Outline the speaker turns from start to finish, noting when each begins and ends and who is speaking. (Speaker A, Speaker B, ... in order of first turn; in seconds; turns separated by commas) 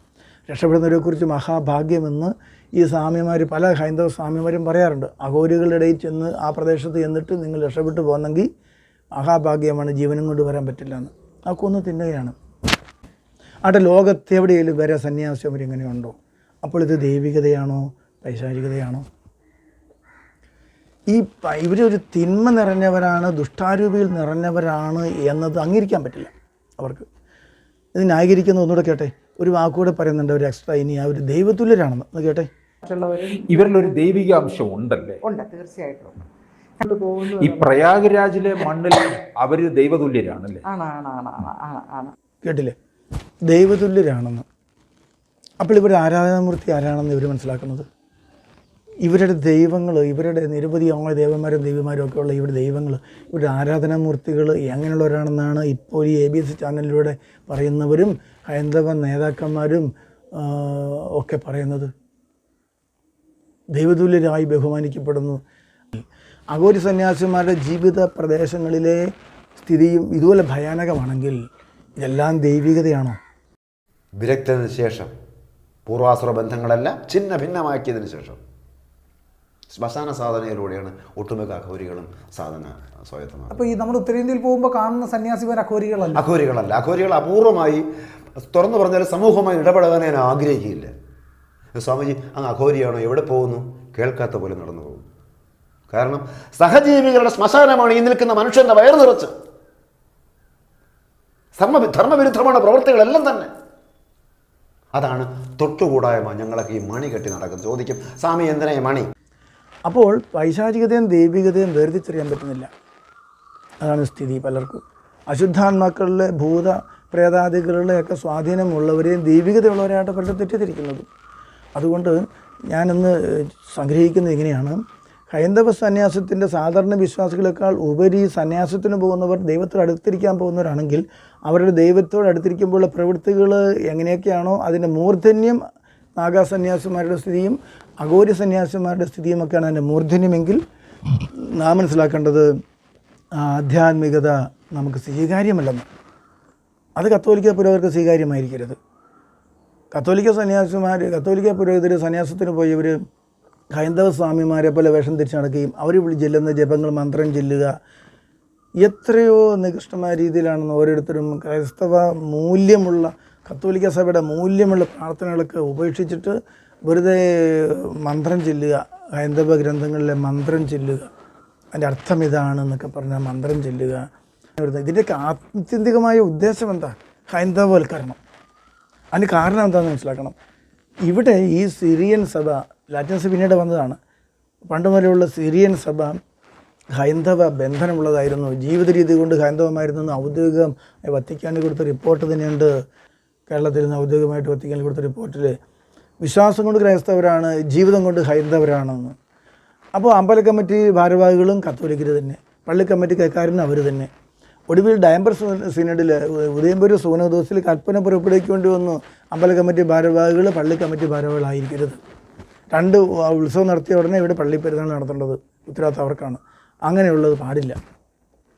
Speaker A: 0.5-8.5, Speaker A: 9.2-12.3, Speaker A: 13.7-19.1, Speaker A: 21.1-27.1, Speaker A: 27.9-32.5, Speaker B: 32.8-33.8, Speaker C: 33.3-35.2, Speaker B: 35.2-36.2, Speaker B: 36.8-37.9, Speaker C: 37.3-40.6, Speaker B: 40.7-42.1, Speaker A: 42.4-42.8, Speaker A: 43.5-44.5, Speaker A: 45.6-47.9, Speaker A: 49.0-61.9, Speaker A: 63.8-65.4, Speaker A: 65.9-69.0, Speaker A: 69.6-71.4, Speaker A: 72.0-73.2, Speaker D: 74.2-75.1, Speaker D: 75.9-78.4, Speaker D: 79.7-83.7, Speaker E: 83.5-86.2, Speaker D: 86.1-87.8, Speaker D: 88.4-90.9, Speaker D: 91.8-95.0, Speaker D: 95.9-99.3, Speaker D: 101.6-103.5, Speaker D: 105.0-109.1, Speaker A: 109.9-112.7, Speaker A: 113.8-121.1, Speaker A: 121.8-124.8, Speaker A: 125.3-135.6, Speaker A: 136.2-140.6, Speaker A: 141.3-142.5, Speaker A: 143.4-145.9, Speaker A: 147.0-148.8, Speaker A: 149.9-153.0, Speaker A: 153.7-157.7, Speaker A: 158.8-171.1, Speaker A: 171.7-174.1, Speaker A: 174.6-178.2, Speaker A: 179.1-180.3, Speaker A: 181.1-184.0, Speaker A: 184.7-186.2, Speaker A: 186.9-192.7, Speaker A: 193.5-195.5, Speaker A: 196.2-199.2, Speaker A: 200.0-204.1, Speaker A: 204.7-212.0, Speaker A: 212.7-217.8